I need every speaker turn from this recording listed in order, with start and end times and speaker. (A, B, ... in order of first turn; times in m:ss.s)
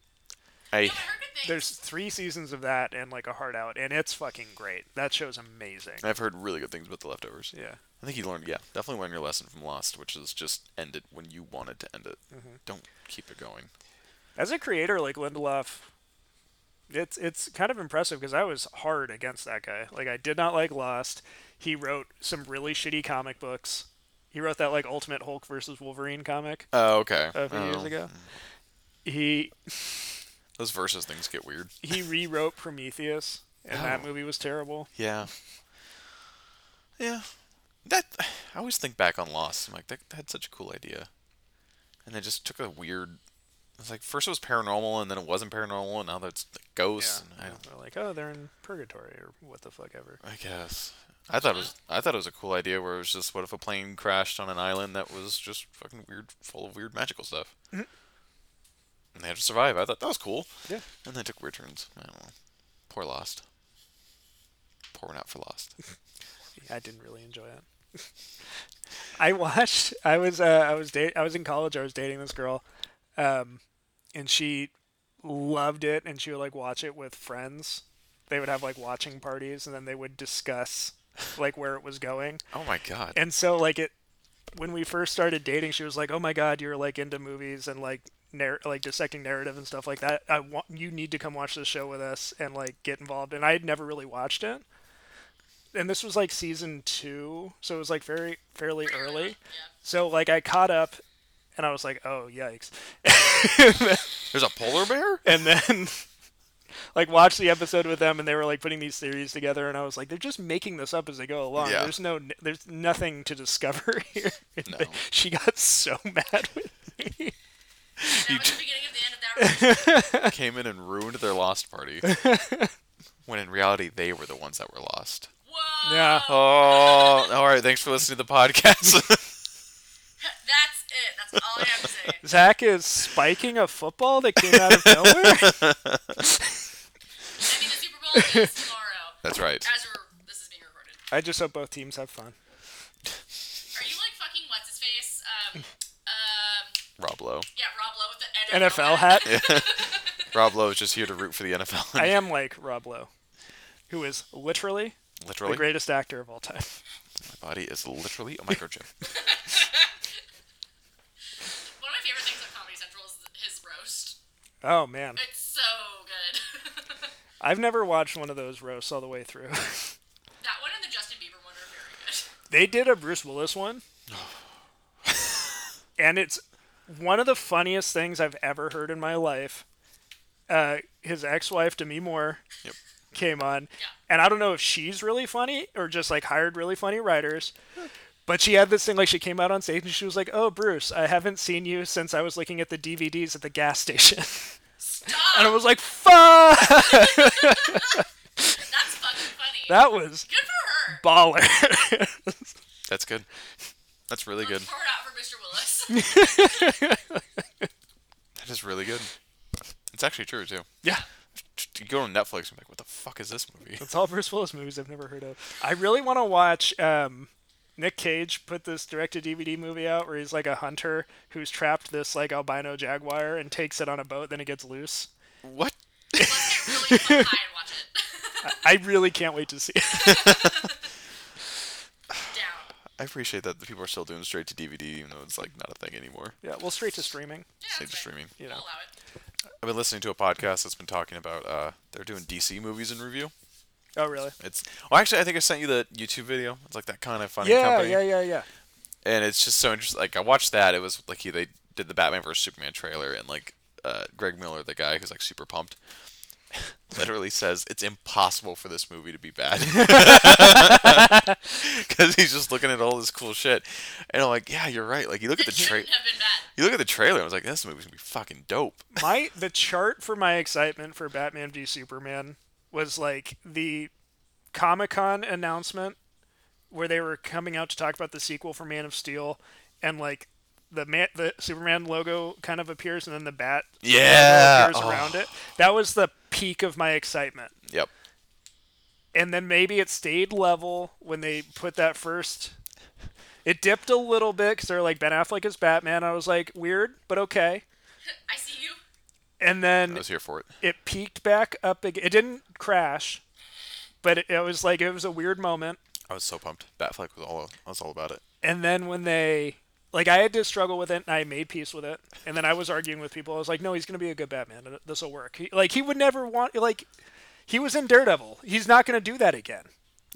0:00.7-0:01.1 A
0:00.8-0:01.8 B
0:01.4-0:06.0 C
0:06.0-0:13.7 A
0:07.5-0:07.8 C
0:12.3-0:12.6 C
0:14.4-0:15.9 C
0:16.9-0:26.7 C
0:26.7-0:28.3 A
0:27.3-0:28.1 C
0:29.0-0:30.2 C
0:30.6-0:31.7 A
0:31.8-0:34.9 C
0:33.7-0:34.1 A
0:34.9-0:35.3 A
0:37.0-0:37.3 A
0:37.8-0:41.1 A
0:42.0-0:43.2 A
0:43.8-0:47.6 A
0:47.0-0:50.2 C
0:50.2-0:57.5 A
0:51.4-0:51.7 B
0:59.1-1:00.5 A
1:01.0-1:02.3 A
1:02.9-1:03.4 A
1:04.9-1:05.7 A
1:06.6-1:07.6 C
1:09.2-1:12.6 C
1:13.2-1:13.6 C
1:14.1-1:14.7 C
1:15.2-1:22.4 C
1:22.5-1:23.2 A
1:23.1-1:23.9 C
1:24.5-1:34.6 C
1:35.7-1:41.0 C
1:38.8-1:39.7 B
1:41.6-1:44.2 C
1:44.3-1:45.2 A
1:45.2-1:46.0 C
1:46.9-1:57.3 C
1:51.6-1:51.9 A
1:54.6-1:55.0 A
1:58.0-1:58.5 C
1:58.1-2:00.2 B
1:59.4-2:00.3 C
2:00.2-2:02.1 A
2:02.0-2:02.7 C
2:03.2-2:05.3 A
2:05.4-2:07.3 B
2:05.8-2:06.2 C
2:06.2-2:09.3 A
2:10.2-2:12.2 B
2:12.2-2:15.7 C
2:14.4-2:16.2 A
2:17.4-2:21.0 B
2:18.1-2:18.5 C
2:19.2-2:19.7 A
2:21.1-2:22.4 C
2:23.7-2:26.8 B
2:27.0-2:27.5 A
2:27.5-2:30.3 B
2:28.5-2:29.4 C
2:29.2-2:32.2 A
2:32.0-2:33.1 C
2:33.9-2:36.8 C
2:35.2-2:35.7 A
2:37.2-2:38.9 A
2:39.0-2:40.0 B
2:41.8-2:44.2 B
2:44.6-2:45.2 C
2:45.2-2:47.1 B
2:47.4-2:49.9 C
2:50.4-2:52.3 B
2:52.5-2:53.8 C
2:54.1-2:54.4 A
2:55.1-2:55.4 A
2:56.0-2:59.6 C
3:00.5-3:02.4 C
3:03.1-3:07.5 C
3:08.3-3:18.0 C
3:14.9-3:15.6 B
3:16.7-3:18.0 B
3:18.5-3:21.0 B
3:19.7-3:20.3 C
3:20.9-3:22.6 C
3:22.9-3:23.2 A
3:24.1-3:24.7 A
3:24.4-3:26.5 B
3:25.9-3:27.7 C
3:28.4-3:29.1 A
3:29.9-3:30.7 A
3:31.5-3:33.8 A
3:33.8-3:45.1 C
3:45.4-3:46.7 A
3:46.2-3:48.7 B
3:46.9-3:47.3 C
3:48.4-3:50.7 C
3:49.9-3:50.8 B
3:52.2-3:52.7 B
3:53.0-3:56.4 A
3:56.4-3:57.5 C
3:57.6-3:58.9 B
3:57.7-3:58.3 A
3:59.6-4:03.3 A
4:04.0-4:04.3 C
4:04.4-4:08.0 A
4:07.4-4:08.5 C
4:09.0-4:15.8 A
4:16.5-4:25.9 A
4:19.6-4:21.3 C
4:25.4-4:26.5 B
4:26.6-4:28.9 A
4:28.9-4:33.9 C
4:34.5-4:36.0 C
4:36.7-4:47.5 C
4:43.8-4:45.2 A
4:49.1-4:52.5 C
4:53.4-4:57.6 C
4:58.0-4:58.8 B
4:59.4-5:00.0 C
4:59.9-5:00.5 A
5:00.6-5:03.2 C
5:04.0-5:05.8 C
5:06.1-5:08.2 A
5:08.4-5:16.9 C
5:17.5-5:19.7 C